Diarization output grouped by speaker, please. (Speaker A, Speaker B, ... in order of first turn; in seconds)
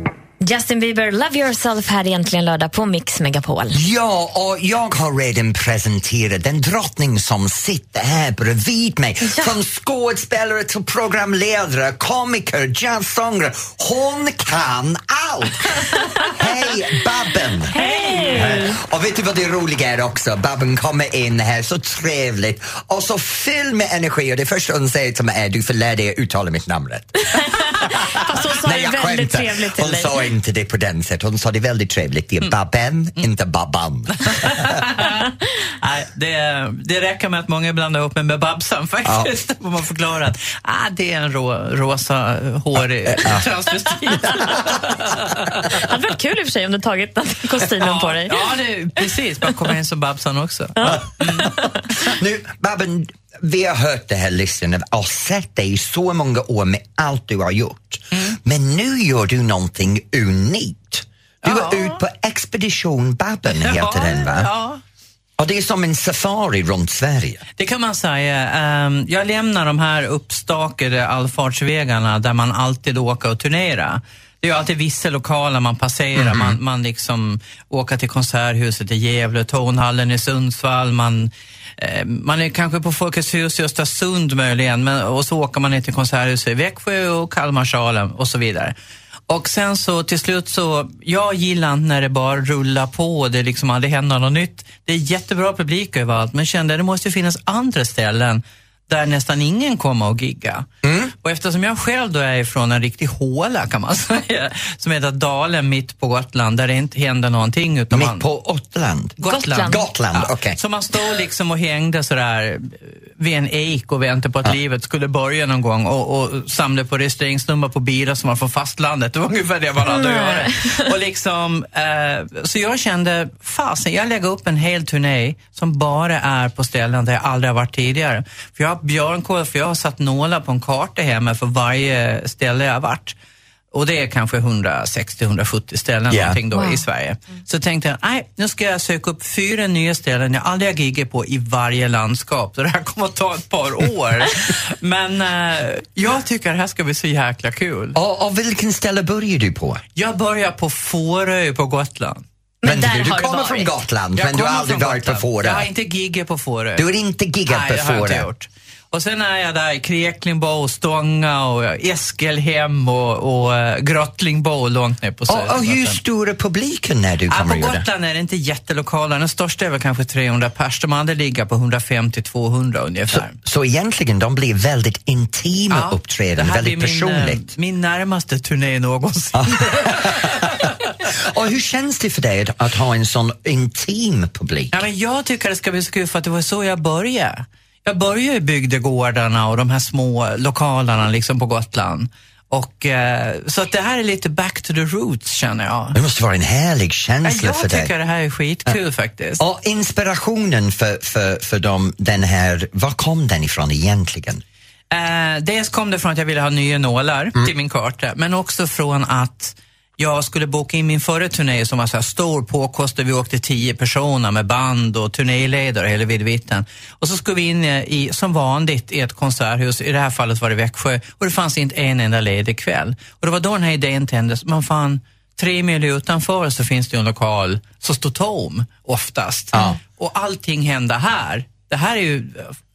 Speaker A: 0.4-3.8, 9.2-9.5, 17.7-18.7, 27.3-30.1, 45.7-48.3, 109.3-109.8, 119.8-120.9, 136.5-136.8, 152.6-153.7
Speaker B: 3.7-17.7, 18.3-34.8, 39.0-39.3, 43.1-43.4, 50.8-64.5, 65.4-67.4, 76.2-76.6, 100.8-101.1, 107.9-110.6, 136.1-136.4, 147.9-149.8, 152.6-155.7, 156.8-158.3, 165.3-167.8, 173.1-177.4, 179.4-184.8, 195.9-197.9, 199.4-204.4
Speaker C: 17.7-18.6, 34.2-45.8, 47.8-51.5, 61.4-62.0, 63.5-64.8, 67.6-88.7, 89.3-100.7, 101.2-108.2, 109.2-133.1, 133.7-147.9, 149.9-152.2, 154.1-156.8, 157.5-166.0, 167.3-173.3, 175.7-180.7, 184.7-196.0, 197.2-199.4, 204.9-232.6